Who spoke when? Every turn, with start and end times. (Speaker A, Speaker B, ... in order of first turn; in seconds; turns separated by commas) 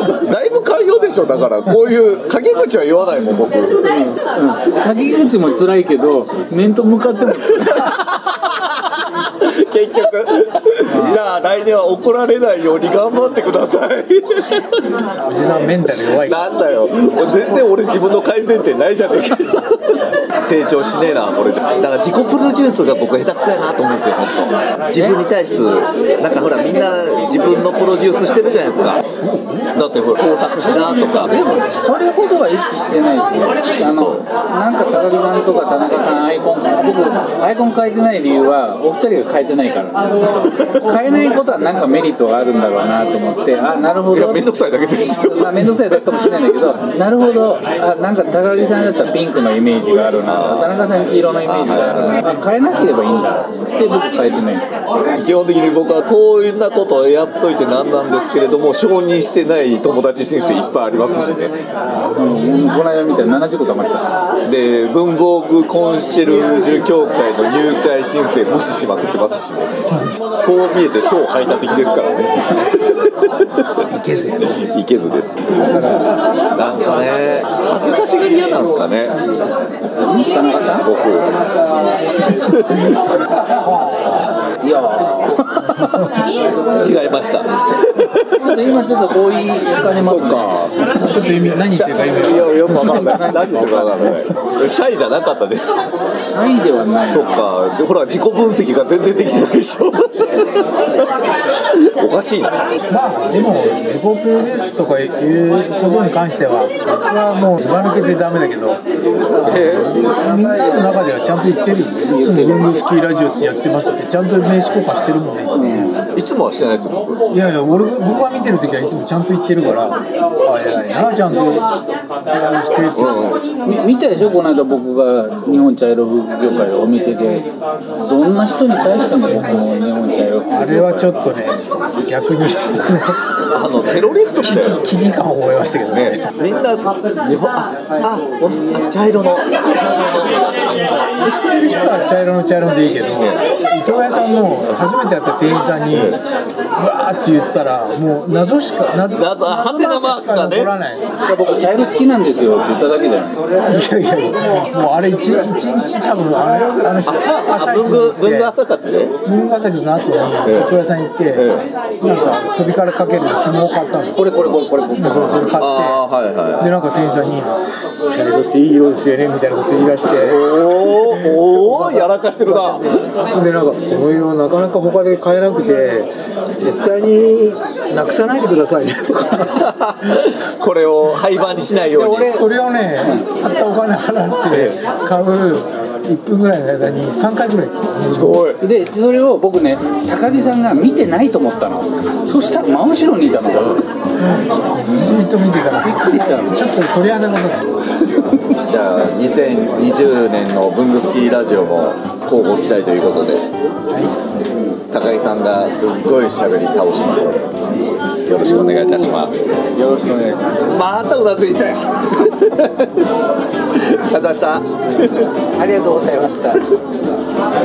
Speaker A: 0.2-3.8, Speaker B: 3.8-8.0, Speaker A: 7.5-14.6, Speaker B: 10.9-11.2, Speaker C: 15.2-16.4, Speaker A: 15.7-29.0, Speaker B: 24.9-25.2, Speaker C: 29.3-29.6, Speaker A: 29.7-31.3, Speaker B: 31.3-44.5, Speaker A: 33.8-34.2, Speaker A: 40.3-40.9, Speaker A: 44.1-46.3, Speaker B: 45.0-54.8, Speaker A: 50.2-50.8, Speaker A: 51.4-52.2, Speaker A: 55.1-61.6, Speaker B: 62.1-64.2, Speaker A: 64.5-73.3, Speaker C: 73.9-74.6, Speaker A: 74.5-76.0, Speaker B: 75.7-76.0, Speaker A: 76.5-79.2, Speaker B: 80.0-80.9, Speaker A: 80.8-81.3, Speaker A: 82.3-83.0, Speaker C: 83.5-84.2, Speaker B: 84.6-86.9, Speaker A: 86.6-88.6, Speaker B: 88.2-90.7, Speaker A: 89.9-90.8, Speaker C: 90.9-93.3, Speaker A: 91.6-95.8, Speaker B: 92.7-94.2, Speaker B: 96.3-97.5, Speaker A: 97.1-100.7, Speaker A: 101.8-102.7, Speaker C: 102.9-115.9, Speaker A: 109.4-110.0, Speaker B: 112.0-112.8, Speaker B: 115.5-116.1, Speaker A: 116.1-117.2, Speaker C: 117.3-121.7, Speaker C: 122.3-123.2, Speaker A: 122.9-123.5, Speaker B: 123.6-131.2, Speaker C: 129.3-129.7, Speaker C: 130.5-133.2, Speaker A: 133.5-134.9, Speaker C: 134.4-136.3, Speaker A: 135.9-140.8, Speaker C: 140.7-146.2, Speaker A: 143.1-143.4, Speaker A: 145.9-146.2, Speaker C: 146.8-151.0, Speaker A: 149.1-150.7, Speaker B: 151.2-153.5, Speaker C: 153.6-158.5, Speaker A: 157.0-159.2, Speaker C: 159.2-161.5, Speaker A: 160.4-160.8, Speaker A: 161.3-161.7, Speaker C: 162.0-166.0, Speaker B: 164.1-165.6, Speaker A: 165.6-166.7, Speaker C: 166.6-179.6, Speaker A: 170.1-173.0, Speaker A: 179.3-182.4, Speaker C: 181.9-188.4, Speaker B: 183.0-183.3, Speaker A: 184.5-184.8, Speaker A: 188.0-188.6, Speaker B: 188.6-193.8, Speaker C: 194.2-197.7, Speaker B: 194.9-195.2, Speaker B: 195.8-196.8, Speaker A: 198.7-203.4, Speaker C: 203.9-204.2, Speaker B: 204.5-204.8, Speaker A: 204.9-209.5, Speaker B: 209.7-210.6, Speaker A: 210.7-213.0, Speaker A: 213.7-215.2, Speaker B: 215.4-216.7